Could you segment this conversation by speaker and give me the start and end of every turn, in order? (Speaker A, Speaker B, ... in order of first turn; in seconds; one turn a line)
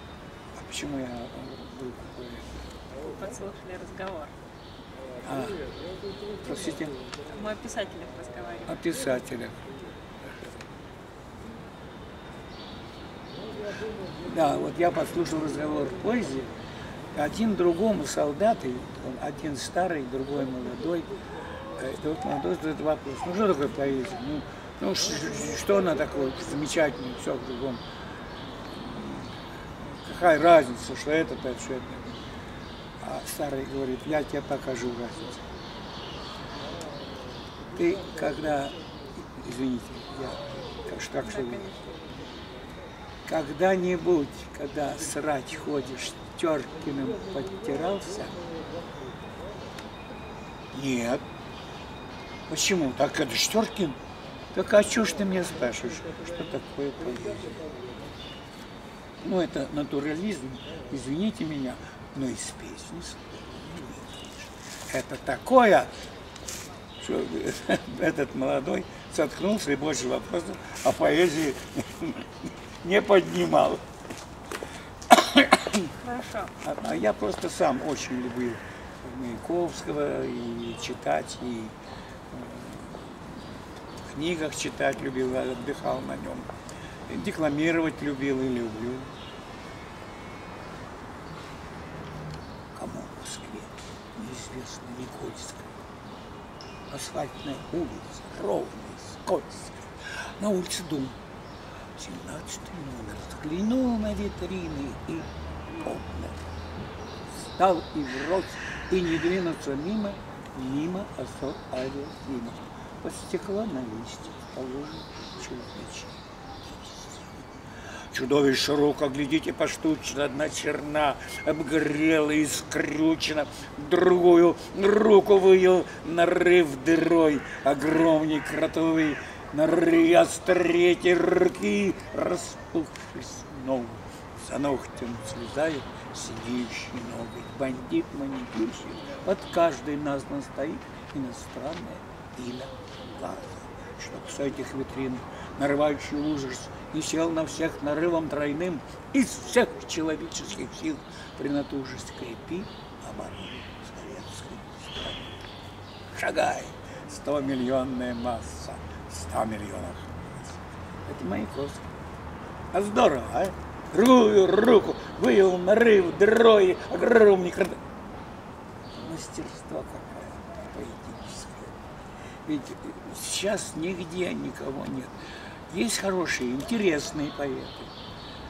Speaker A: 0.5-2.7
Speaker B: 3.0-4.3
Speaker A: 5.2-5.7
Speaker A: 6.4-7.0
Speaker B: 7.3-8.8
Speaker A: 8.7-9.7
Speaker A: 14.2-16.6
Speaker A: 17.1-21.1
Speaker A: 21.8-27.8
Speaker A: 28.7-32.2
Speaker A: 33.0-35.5
Speaker A: 37.7-41.7
Speaker B: 41.2-41.9
Speaker A: 43.3-48.4
Speaker A: 50.7-51.2
Speaker A: 52.5-54.0
Speaker A: 54.5-57.7
Speaker A: 59.2-65.9
Speaker A: 67.0-73.8
Speaker A: 75.1-75.9
Speaker B: 76.0-76.5
Speaker A: 76.6-81.8
Speaker A: 82.3-83.3
Speaker A: 84.0-86.5
Speaker A: 87.1-89.1
Speaker A: 92.7-95.8
Speaker A: 96.9-101.2
Speaker A: 102.0-106.5
Speaker A: 107.3-117.5
Speaker A: 118.1-155.4
Speaker A: 156.1-161.9
Speaker A: 162.7-167.8
Speaker A: 168.9-171.8
Speaker A: 172.4-175.2
Speaker A: 175.7-177.9